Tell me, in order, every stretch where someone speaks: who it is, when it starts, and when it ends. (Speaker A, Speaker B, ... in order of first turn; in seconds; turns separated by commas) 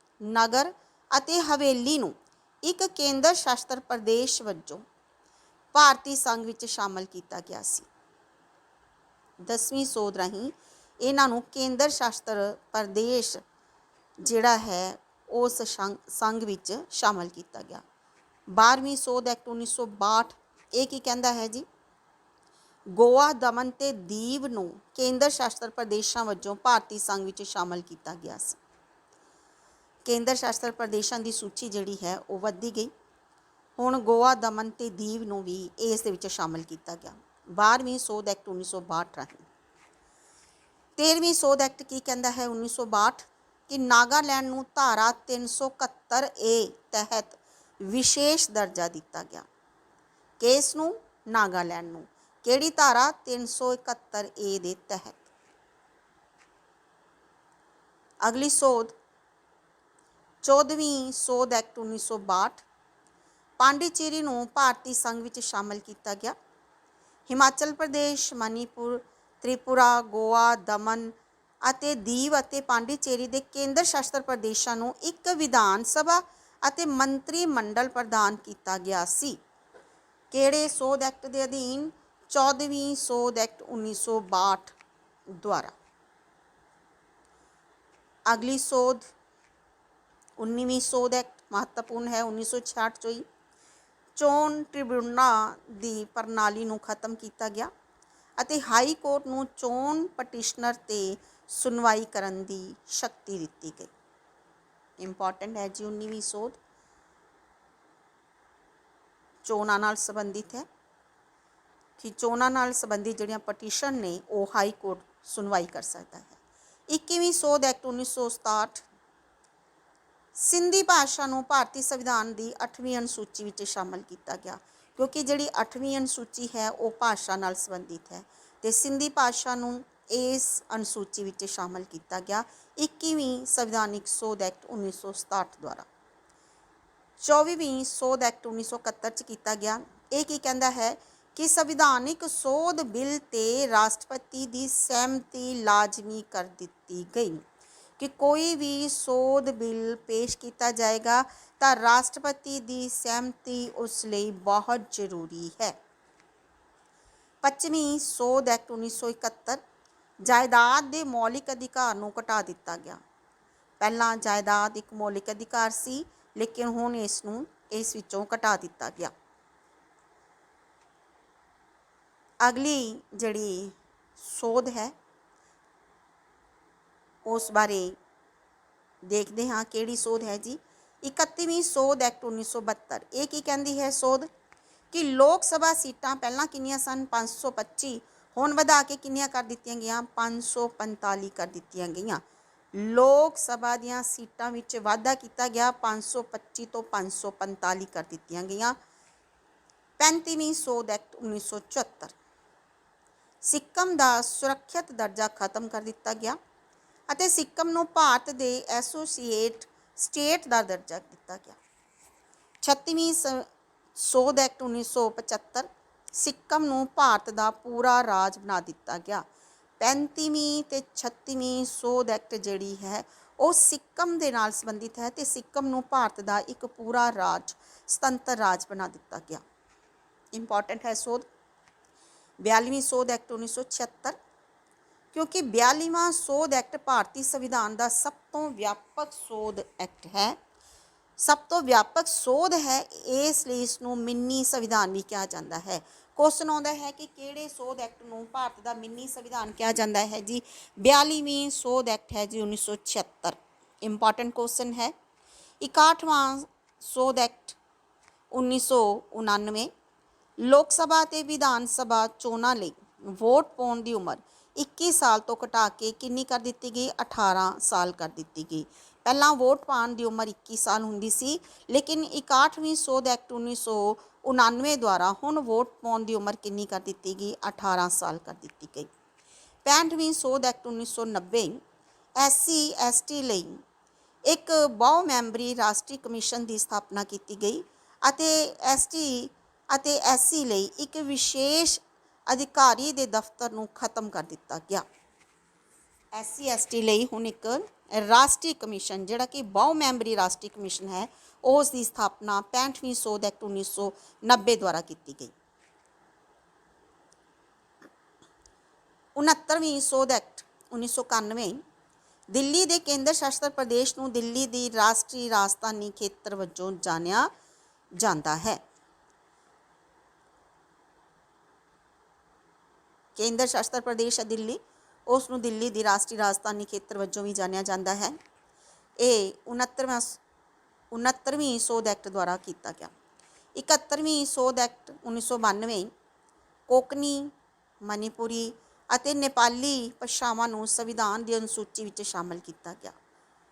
Speaker A: 0.2-4.8, Speaker A: 5.7-7.9, Speaker A: 9.4-13.4, Speaker A: 14.2-17.8, Speaker A: 18.5-21.6, Speaker A: 22.9-28.6, Speaker A: 30.0-32.9, Speaker A: 33.8-39.5, Speaker A: 41.0-49.5, Speaker A: 50.4-55.2, Speaker A: 58.2-58.9, Speaker A: 60.4-62.6, Speaker A: 63.6-66.3, Speaker A: 67.3-71.1, Speaker A: 71.6-79.4, Speaker A: 80.3-84.8, Speaker A: 85.4-85.7, Speaker A: 88.3-89.1, Speaker A: 90.4-93.2, Speaker A: 94.2-97.7, Speaker A: 98.4-103.9, Speaker A: 105.0-106.6, Speaker A: 109.4-110.7, Speaker A: 112.0-116.4, Speaker A: 116.9-118.8, Speaker A: 120.3-135.9, Speaker A: 137.2-147.4, Speaker A: 148.0-155.7, Speaker A: 157.4-159.6, Speaker A: 160.2-163.0, Speaker A: 163.8-169.1, Speaker A: 172.4-174.9, Speaker A: 177.2-177.9, Speaker A: 179.0-184.3, Speaker A: 184.9-192.2, Speaker A: 192.7-198.8, Speaker A: 200.0-202.1, Speaker A: 203.4-206.4, Speaker A: 207.1-211.6, Speaker A: 212.6-219.2, Speaker A: 219.8-229.4, Speaker A: 230.3-231.2, Speaker A: 232.4-234.2, Speaker A: 235.1-240.4, Speaker A: 241.2-254.9, Speaker A: 255.6-257.6, Speaker A: 258.3-259.7, Speaker A: 260.4-278.9, Speaker A: 279.6-281.6, Speaker A: 282.2-283.6, Speaker A: 284.2-294.8, Speaker A: 296.1-305.3, Speaker A: 309.1-311.6, Speaker A: 312.3-317.3, Speaker A: 318.0-318.6, Speaker A: 323.1-328.1, Speaker A: 329.0-330.2, Speaker A: 330.9-332.9, Speaker A: 333.6-335.9, Speaker A: 336.7-337.3, Speaker A: 337.8-342.9